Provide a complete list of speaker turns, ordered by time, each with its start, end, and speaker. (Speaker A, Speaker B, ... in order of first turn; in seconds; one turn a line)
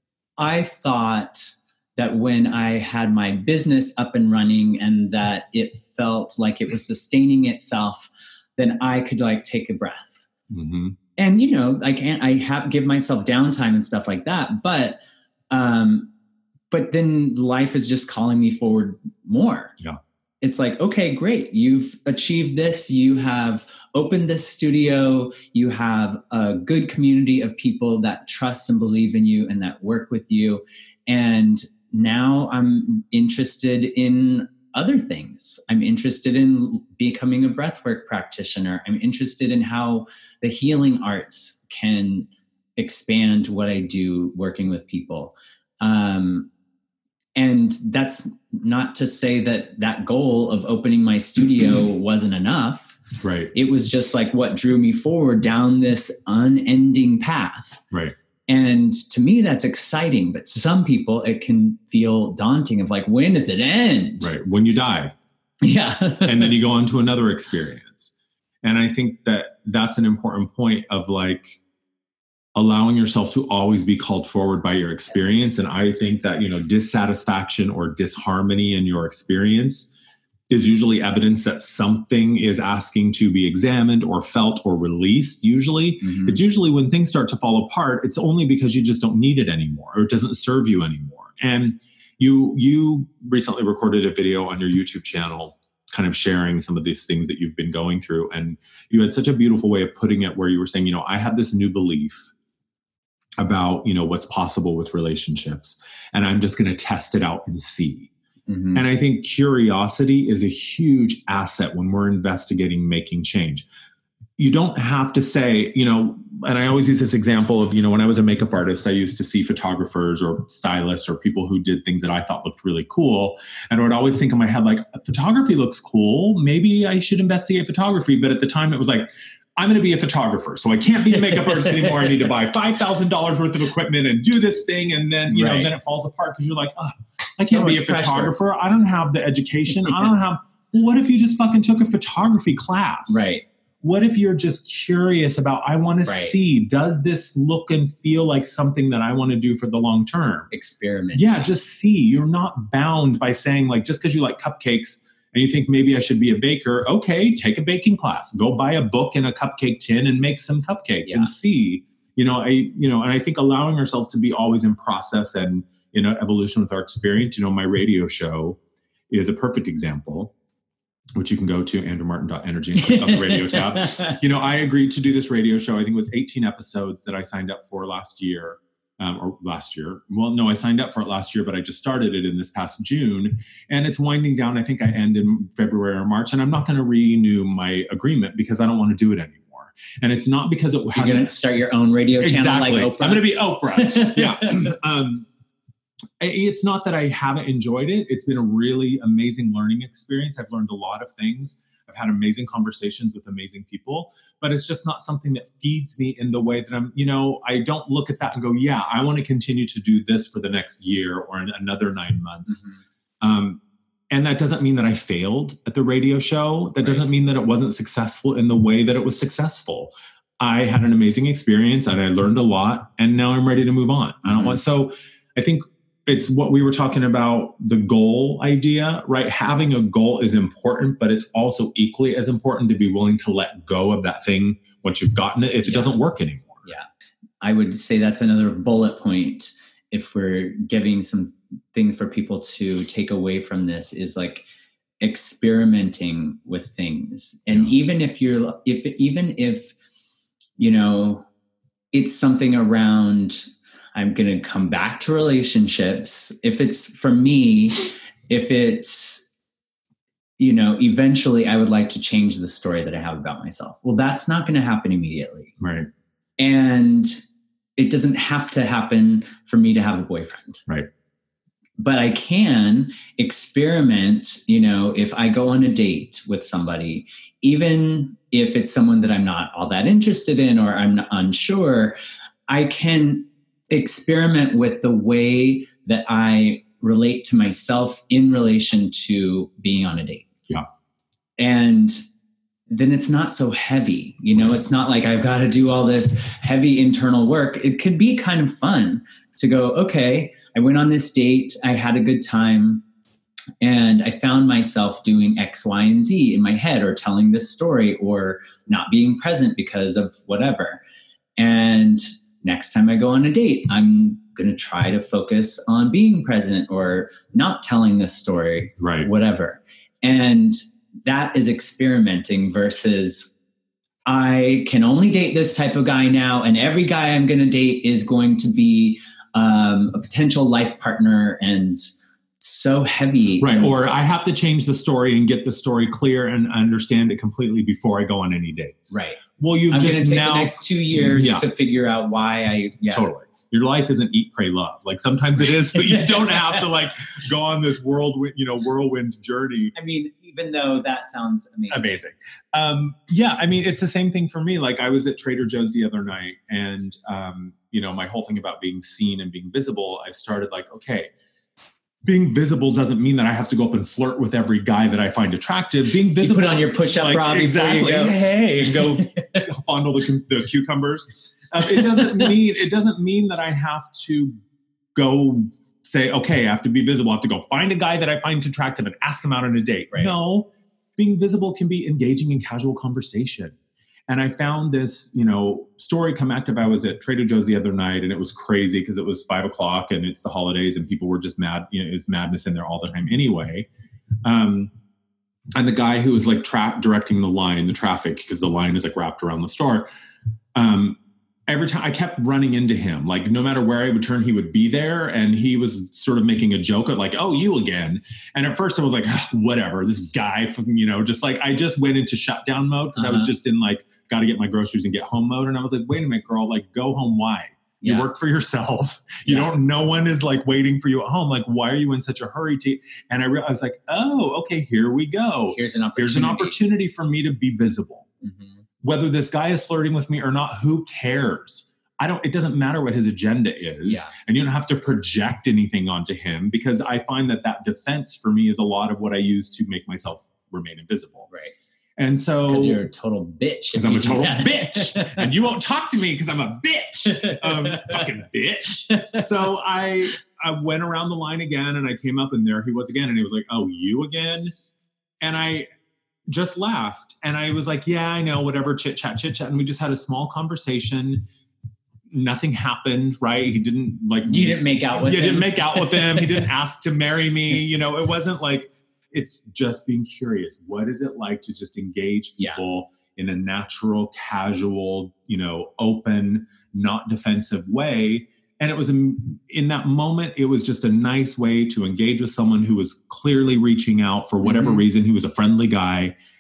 Speaker A: 0.4-10.3
Speaker B: 10.5-10.9
Speaker A: 11.2-15.0
Speaker A: 15.5-16.1
Speaker A: 16.7-19.7
Speaker A: 20.4-46.5
Speaker A: 47.4-53.0
Speaker B: 53.2-53.5
Speaker A: 53.5-57.8
Speaker A: 58.5-64.3
Speaker B: 64.2-65.1
Speaker A: 65.6-66.5
Speaker B: 66.2-71.6
Speaker B: 72.5-79.9
Speaker B: 80.5-102.3
Speaker A: 86.0-86.4
Speaker B: 103.4-108.1
Speaker A: 108.5-108.8
Speaker B: 108.7-113.7
Speaker B: 114.4-143.3
Speaker A: 131.5-132.1
Speaker A: 135.3-135.7
Speaker A: 137.4-138.3
Speaker A: 143.1-143.4
Speaker B: 143.8-150.5
Speaker A: 146.0-146.3
Speaker A: 150.5-151.5
Speaker B: 151.1-168.6
Speaker A: 161.0-161.3
Speaker B: 169.1-170.3
Speaker B: 171.2-191.3
Speaker A: 172.8-174.2
Speaker A: 190.9-194.7
Speaker B: 192.2-195.3
Speaker B: 196.2-212.7
Speaker B: 213.2-236.7
Speaker A: 224.3-224.6
Speaker A: 235.6-236.0
Speaker A: 237.4-244.4
Speaker A: 245.0-249.8
Speaker A: 250.6-251.3
Speaker A: 251.9-259.3
Speaker A: 260.4-265.6
Speaker B: 265.6-265.9
Speaker A: 266.4-267.2
Speaker A: 267.8-270.6
Speaker A: 271.8-282.0
Speaker A: 282.5-290.3
Speaker A: 291.4-292.0
Speaker A: 292.7-302.8
Speaker A: 303.6-310.8
Speaker A: 311.4-323.4
Speaker B: 318.8-319.1
Speaker A: 324.1-331.9
Speaker A: 332.4-333.7
Speaker B: 333.4-341.4
Speaker A: 338.9-343.1
Speaker B: 342.9-349.7
Speaker A: 345.6-346.6
Speaker A: 349.7-352.0
Speaker B: 351.7-361.1
Speaker B: 362.0-374.4
Speaker A: 366.2-369.4
Speaker A: 371.6-372.3
Speaker B: 374.9-383.6
Speaker B: 384.1-393.7
Speaker B: 394.2-394.7
Speaker B: 395.6-399.9
Speaker B: 400.5-428.1
Speaker A: 412.9-413.3
Speaker A: 417.8-418.1
Speaker A: 419.2-419.5
Speaker A: 425.5-426.6
Speaker A: 428.2-428.5
Speaker B: 428.8-441.3
Speaker A: 433.9-434.1
Speaker A: 441.3-441.5
Speaker B: 442.0-442.8
Speaker A: 442.4-445.3
Speaker B: 443.7-454.5
Speaker A: 447.1-447.9
Speaker A: 448.9-449.2
Speaker B: 455.2-455.7
Speaker B: 456.3-461.3
Speaker B: 462.1-486.1
Speaker A: 464.2-466.4
Speaker A: 484.4-484.8